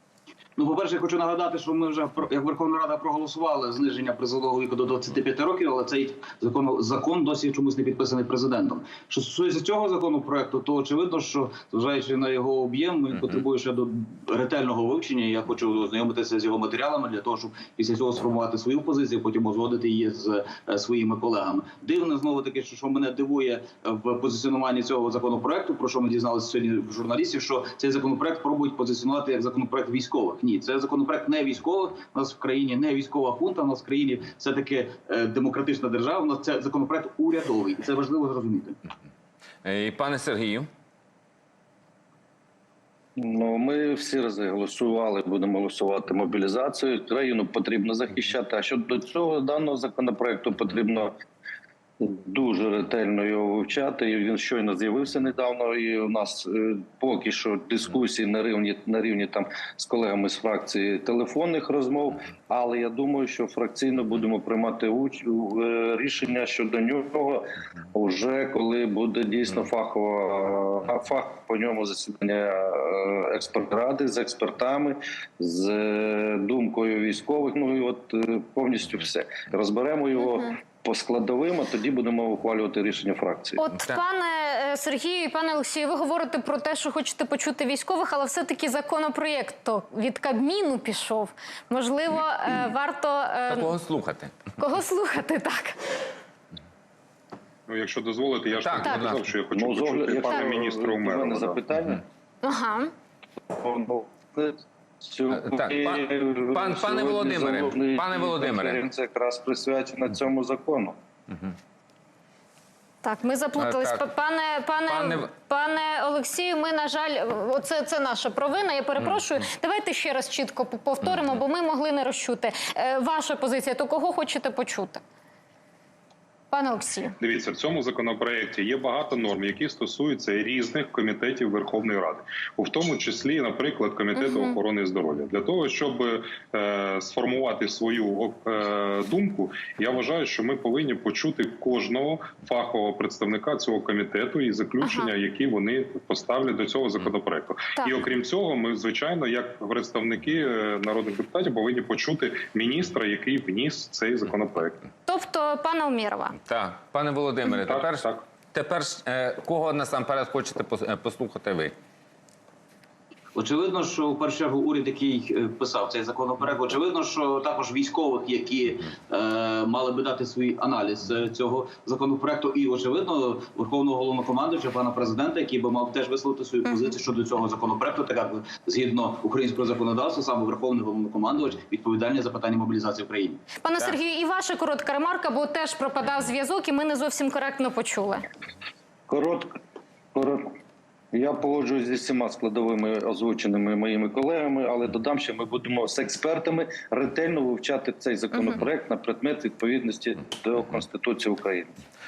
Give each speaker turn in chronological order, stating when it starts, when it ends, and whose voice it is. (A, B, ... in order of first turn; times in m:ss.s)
0:00.6-0:38.8 A
0:39.6-0:40.7 B
0:43.2-0:51.1 C
0:52.0-1:23.6 C
1:23.6-1:33.8 D
1:33.5-1:34.5 B
1:34.6-1:35.8 D
1:37.7-1:41.6 E
1:38.5-1:39.3 B
1:39.5-1:42.0 C
1:42.4-1:42.9 D
1:43.6-1:51.0 C
1:45.3-1:48.8 B
1:53.0-2:05.0 D
1:53.6-1:54.1 B
1:54.9-1:55.3 B
2:01.0-2:01.3 B
2:06.5-2:07.2 D
2:07.2-2:34.8 E
2:14.1-2:14.6 D
2:24.8-2:25.1 D
2:35.0-2:36.4 D
2:36.4-2:41.7 B
2:37.5-2:38.2 E
2:43.3-3:03.5 A
3:03.6-3:08.2 D
3:09.1-3:09.5 C
3:10.1-3:10.4 C
3:11.1-3:21.7 C